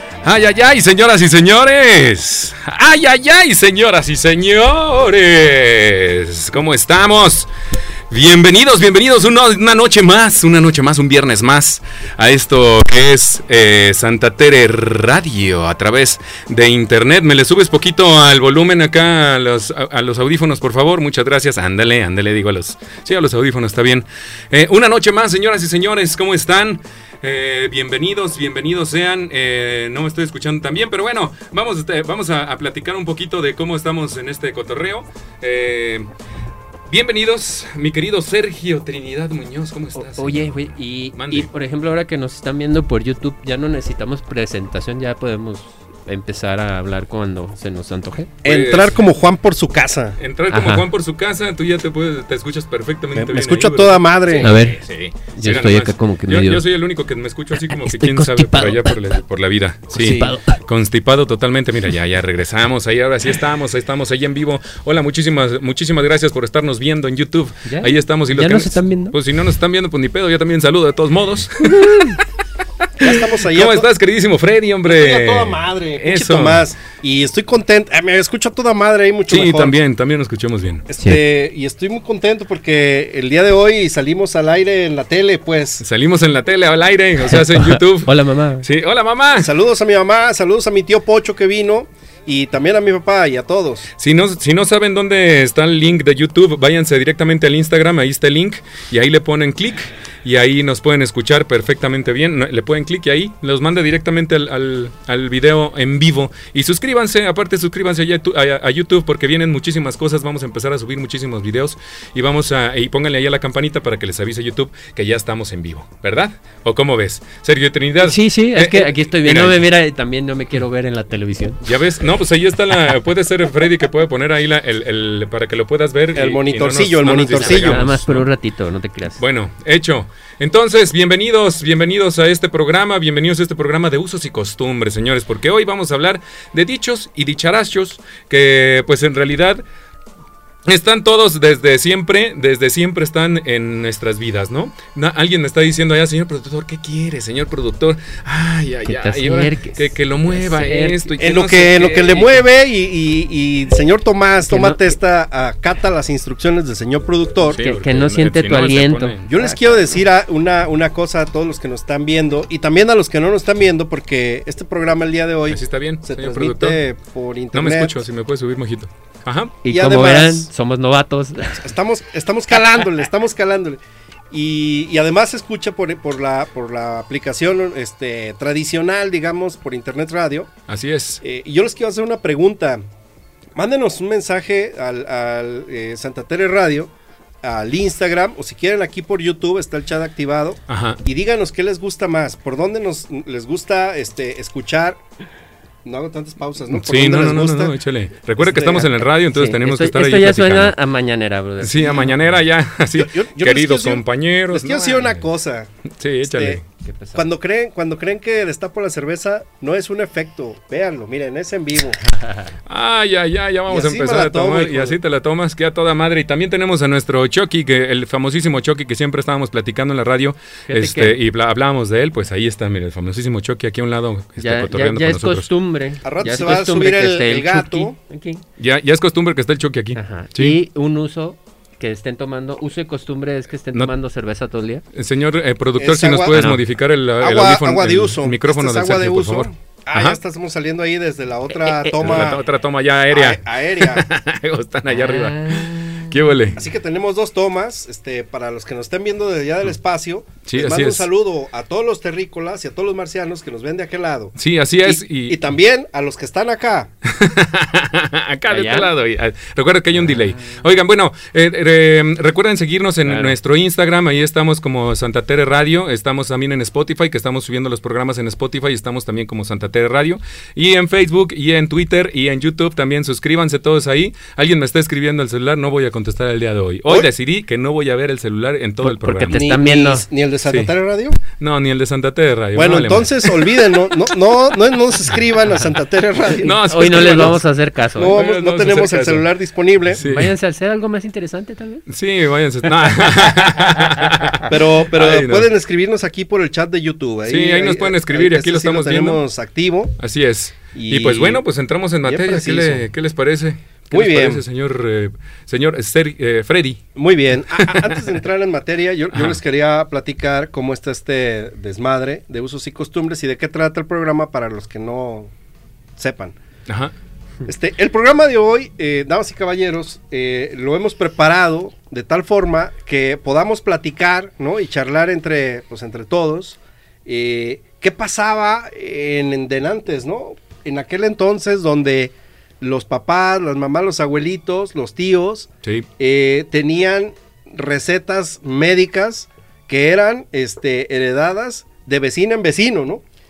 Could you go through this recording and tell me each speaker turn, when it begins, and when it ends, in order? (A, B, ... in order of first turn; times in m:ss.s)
0:00.2-0:07.5 A
0:08.1-0:36.1 A
0:36.9-0:41.5 A
0:40.0-0:48.3 B
0:48.4-0:49.0 A
0:48.4-0:50.2 C
0:50.2-1:12.2 A
0:50.5-0:50.9 B
0:53.2-0:54.6 C
0:54.4-0:54.8 B
0:55.3-0:56.6 B
0:57.7-0:59.0 B
1:00.0-1:00.4 C
1:00.0-1:00.6 B
1:07.7-1:09.2 B
1:11.6-1:12.2 B
1:13.0-1:16.7 A
1:13.0-1:13.9 C
1:14.9-1:19.8 C
1:19.3-1:20.9 A
1:20.9-1:25.8 C
1:25.8-1:29.5 A
1:27.5-1:28.7 B
1:29.4-1:33.9 C
1:34.0-1:59.7 A
1:58.0-2:01.6 B
2:01.6-2:08.3 A
2:06.1-2:07.9 C
2:07.3-2:09.2 B
2:09.2-2:19.6 A
2:20.7-2:32.4 A
2:28.8-2:31.1 B
2:31.2-2:37.6 C
2:34.5-2:35.0 B
2:37.4-2:39.3 A
2:37.6-2:40.0 B
2:39.2-2:48.0 C
2:45.5-2:46.8 A
2:47.5-2:49.6 A
2:49.6-2:51.7 B
2:49.7-2:50.5 C
2:51.6-3:00.5 C
3:00.7-3:01.2 A
3:01.2-3:02.8 C
3:03.6-3:15.0 C
3:10.7-3:11.0 A
3:15.8-3:17.8 C
3:16.7-3:20.8 A
3:18.4-3:19.0 C
3:19.3-3:22.2 B
3:21.6-3:25.3 A
3:23.0-3:26.6 C
3:26.0-3:26.6 A
3:26.8-3:27.3 B
3:27.2-3:32.0 C
3:32.7-3:45.5 A
3:33.7-3:35.0 C
3:40.7-3:41.2 B
3:44.4-3:48.4 B
3:46.0-3:48.0 C
3:48.6-3:50.6 A
3:50.0-3:54.8 B
3:55.0-4:00.2 A
3:55.8-3:56.5 C
3:56.3-3:56.6 B
3:57.2-4:02.4 C
4:01.5-4:02.3 B
4:02.0-4:06.6 A
4:03.1-4:04.1 C
4:04.9-4:06.3 B
4:06.6-4:16.9 C
4:10.4-4:11.1 A
4:14.4-4:15.4 A
4:17.0-4:39.4 A
4:18.5-4:18.9 B
4:20.0-4:20.6 B
4:23.1-4:23.4 B
4:38.8-4:40.0 B
4:39.3-4:41.2 C
4:40.4-4:40.7 A
4:41.3-4:44.0 A
4:42.6-4:47.4 C
4:46.4-4:47.4 A
4:46.6-4:48.2 B
4:48.0-4:50.0 C
4:48.0-4:49.3 A
4:49.9-4:50.3 A
4:50.0-4:51.8 B
4:51.9-4:55.5 A
4:52.8-4:54.4 B
4:54.5-5:00.0 C
4:57.3-4:59.2 A
5:00.0-5:06.8 A
5:00.7-5:01.4 C
5:02.0-5:02.8 C
5:03.9-5:04.4 C
5:07.0-5:15.3 C
5:07.6-5:08.2 A
5:09.1-5:09.4 A
5:16.0-5:16.4 C
5:16.7-5:16.9 A
5:17.5-5:43.0 C